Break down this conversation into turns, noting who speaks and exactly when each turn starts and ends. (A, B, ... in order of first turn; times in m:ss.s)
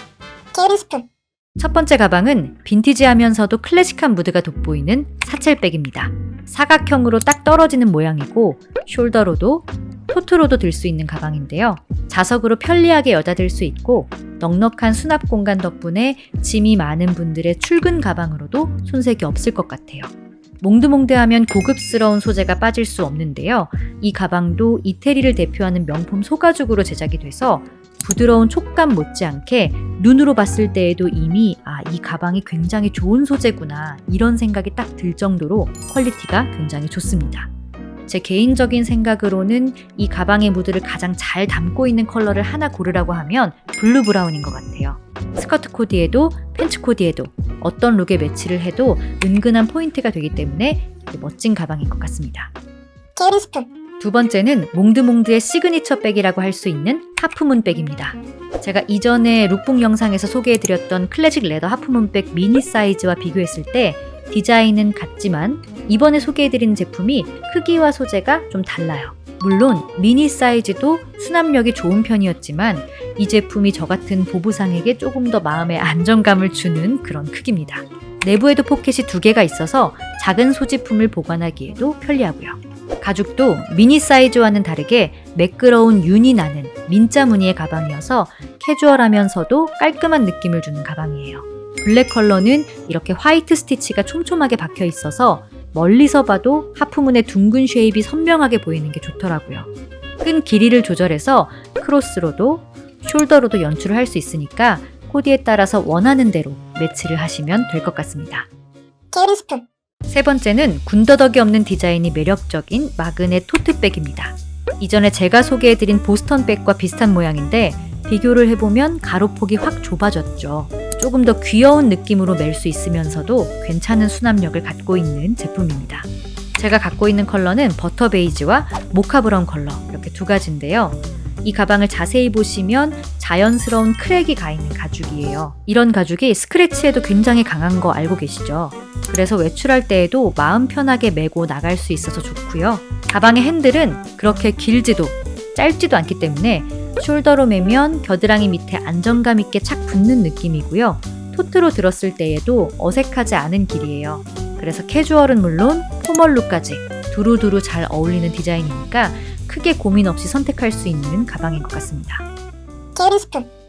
0:00.5-0:01.1 A
0:01.6-0:37.5 B
0:38.1-0:52.5 B
0:53.2-0:53.7 A
0:54.0-1:39.7 B
1:40.2-1:48.5 B
1:49.1-1:49.7 A
1:50.1-2:42.2 B
2:42.9-2:43.5 A